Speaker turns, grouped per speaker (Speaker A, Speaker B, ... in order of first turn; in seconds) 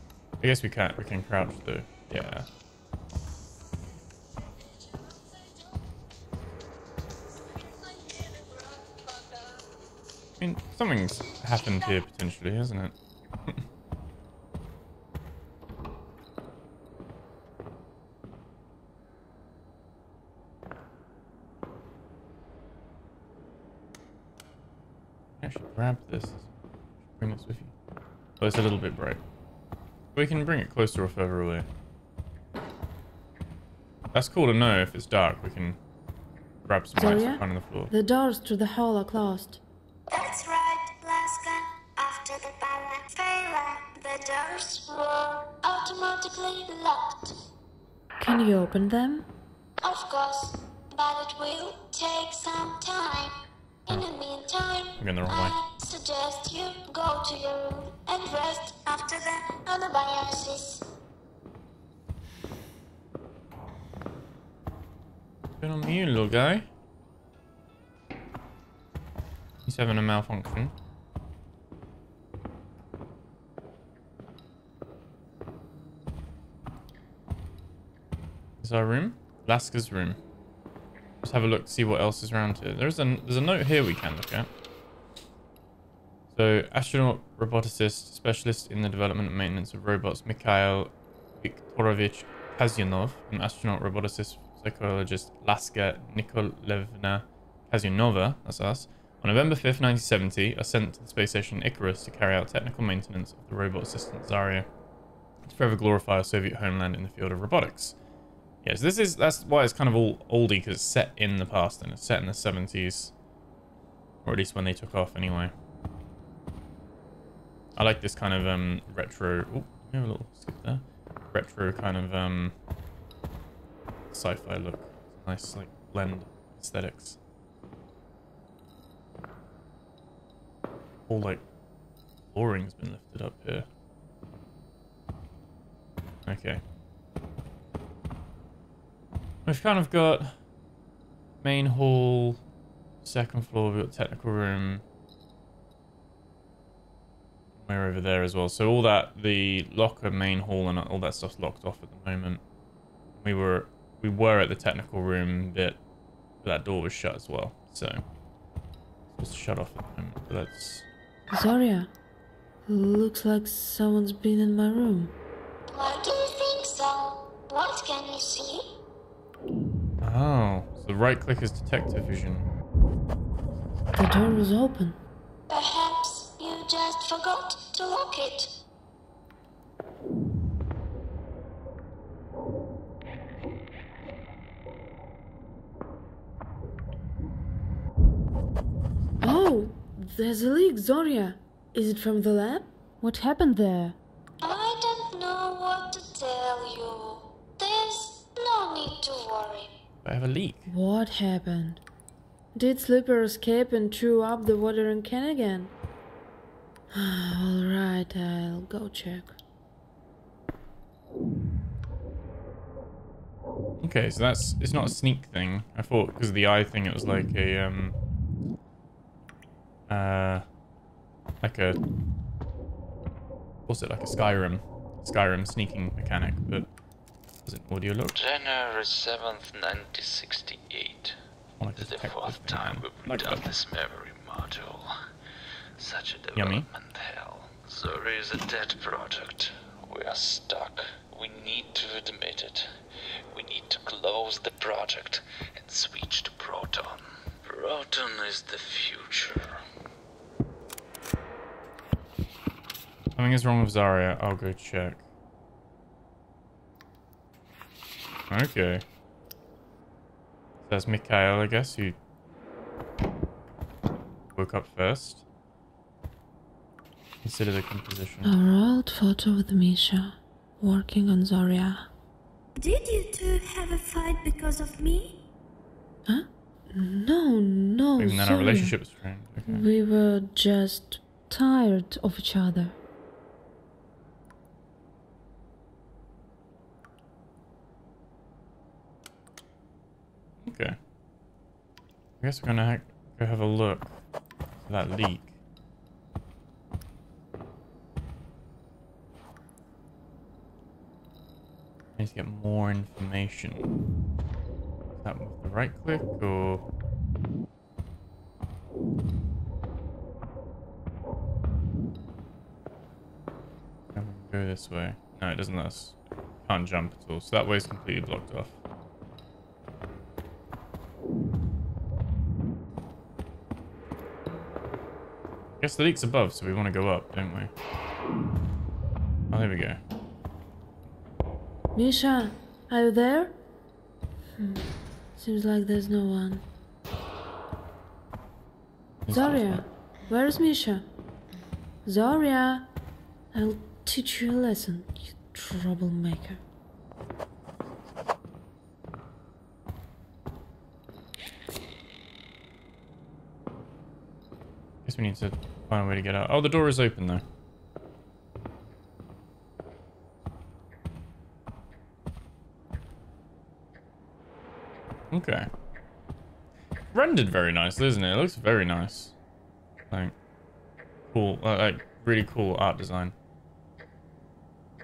Speaker A: 0.4-2.5, 10.4-12.9, 25.4-26.4, 27.1-27.7, 28.4-29.2, 30.1-31.7, 34.1-35.8, 36.6-37.9, 55.0-55.5, 65.6-66.7, 69.7-70.7, 78.6-80.2, 81.2-84.5, 86.3-104.7, 105.4-108.0, 108.6-113.1, 114.2-115.5, 117.8-122.5, 124.1-127.2, 131.1-131.4, 132.3-133.7, 136.2-136.6, 139.4-140.3, 141.4-142.4, 143.0-144.8, 147.6-152.4, 153.2-155.8, 156.4-158.0, 159.1-160.8, 170.0-172.4, 200.0-200.7, 213.8-217.9, 219.9-220.4, 221.4-221.8, 223.7-226.7, 227.4-228.2, 231.6-233.5, 236.3-236.7, 253.2-255.0, 258.3-258.8, 260.7-262.0, 264.3-265.2, 267.2-268.3, 278.0-279.6, 290.4-290.8, 292.2-293.9, 294.6-295.3, 301.9-303.7, 305.0-306.6, 313.9-318.5, 325.6-327.5, 329.3-329.8, 339.1-339.6, 354.8-357.2, 365.1-365.5, 366.9-369.1, 371.1-373.1
Speaker B: 37.0-39.6, 48.2-49.3, 161.3-161.9, 162.7-165.1, 173.9-175.0, 189.2-194.0, 200.7-201.8, 202.5-205.7, 206.9-209.3, 268.2-271.9, 276.1-278.8, 279.4-282.8, 331.8-333.4, 334.4-336.4, 339.1-340.9, 341.8-342.7, 343.3-346.4
Speaker C: 40.1-47.3, 49.8-53.4, 53.9-60.9, 165.7-168.7, 175.5-178.6, 194.4-199.8, 272.6-275.2
Speaker D: 228.1-231.2, 231.8-234.9, 235.8-242.7, 243.3-249.6